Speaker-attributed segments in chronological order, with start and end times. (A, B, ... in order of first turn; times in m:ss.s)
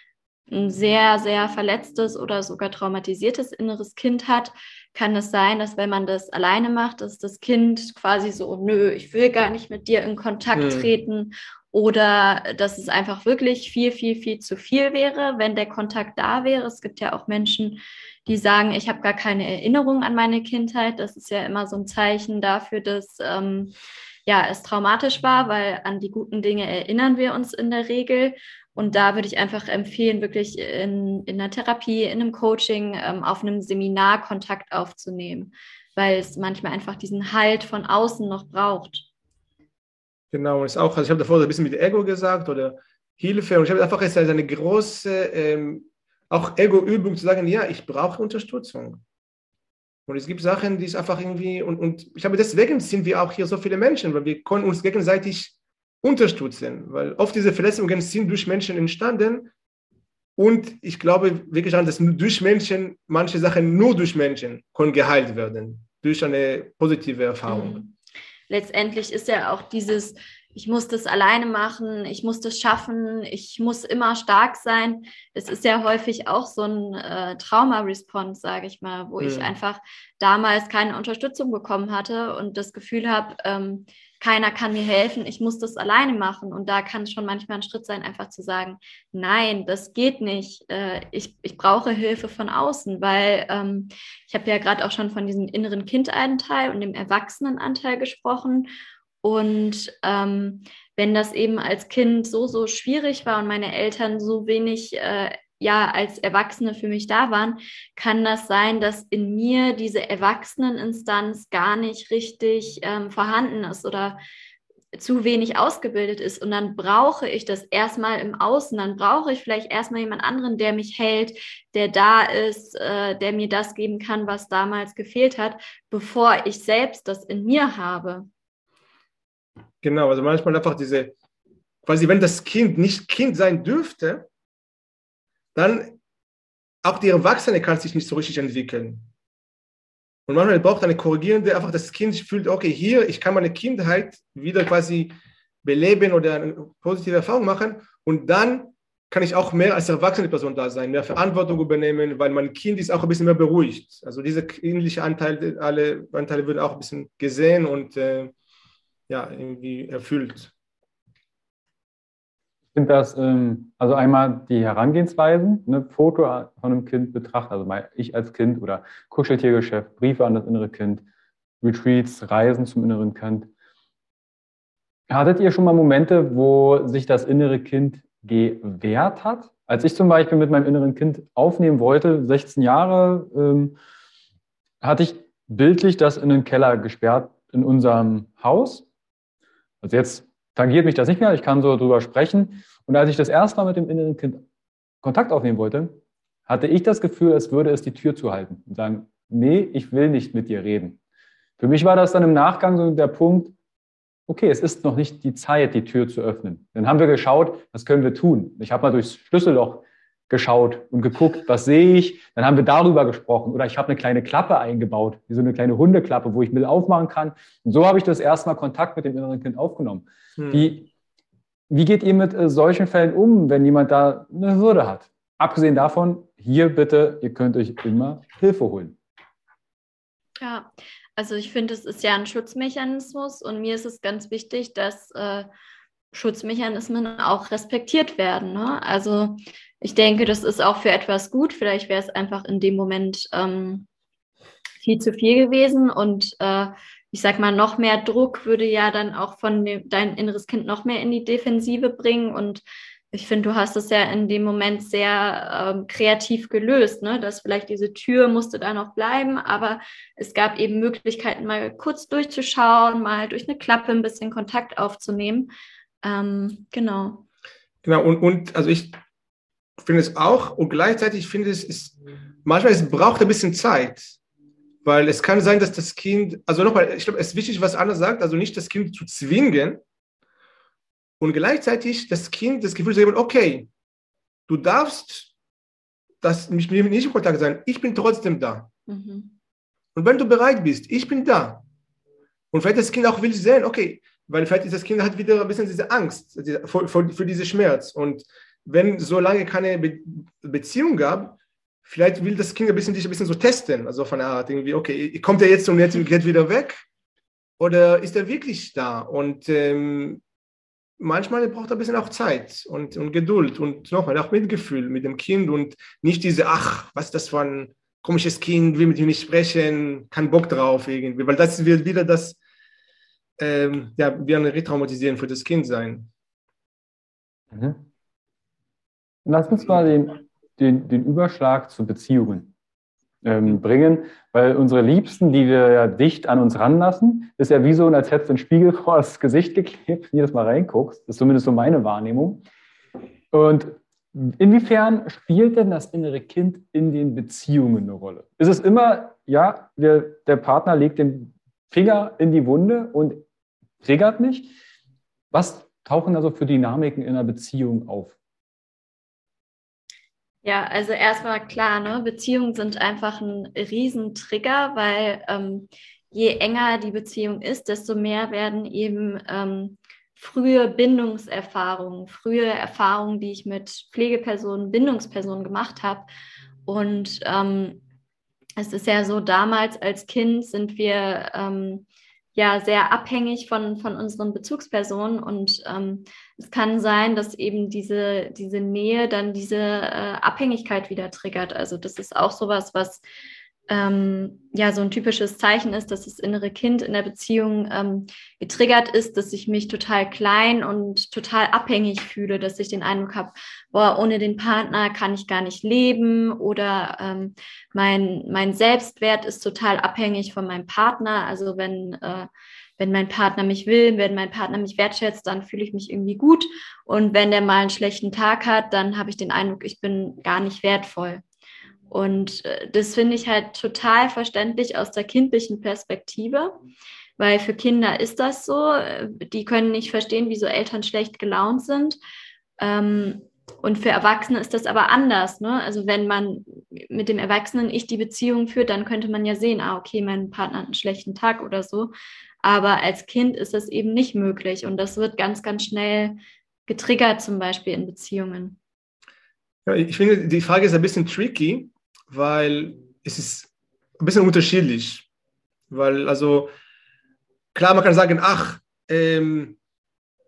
0:00.5-0:23.7 A
0:10.5-0:10.9 B
0:24.2-0:39.1 A
0:40.3-0:49.0 B
0:50.1-0:59.5 B
1:00.4-1:07.8 B
1:07.5-1:07.9 A
1:08.5-1:38.7 A
1:19.2-1:19.5 B
1:39.2-1:54.2 A
1:54.9-2:08.3 A
2:09.8-2:11.1 B
2:11.8-2:14.3 B
2:15.5-2:16.0 B
2:16.8-2:19.0 B
2:20.3-2:38.3 B
2:39.1-2:40.5 B
2:42.7-2:51.0 C
2:51.6-2:53.5 C
2:55.1-3:03.8 C
3:04.8-3:08.9 C
3:09.8-3:14.4 C
3:15.0-3:21.0 C
3:21.6-3:23.5 C
3:24.3-3:40.9 C
3:40.4-3:40.7 B
3:41.7-3:49.0 C
3:50.4-3:55.5 A
3:56.1-4:03.8 A
4:04.8-4:25.5 A
4:26.0-4:27.2 A
4:27.8-4:29.0 B
4:29.8-4:34.2 B
4:34.8-4:39.8 B
4:41.2-4:43.7 B
4:44.5-4:45.3 B
4:46.2-4:48.7 B
4:48.9-4:49.3 A
4:49.9-4:51.6 B
4:52.5-5:06.8 B
5:07.6-5:10.2 B
5:11.0-5:22.4 B
5:23.4-5:26.1 B
5:27.5-5:27.9 C
5:29.2-5:32.5 C
5:33.2-5:42.4 C
5:43.3-5:53.2 C
5:53.8-5:54.5 C
5:55.3-5:58.2 C
6:00.4-6:16.1 A
6:16.7-6:17.8 A
6:18.6-6:21.8 A
6:22.4-6:33.0 A
6:33.7-7:01.2 A
7:01.9-7:06.6 A
7:07.2-7:12.0 A
7:12.6-7:21.9 A
7:22.4-7:28.6 A
7:29.6-7:35.1 B
7:35.7-7:36.5 B
7:37.5-7:39.6 B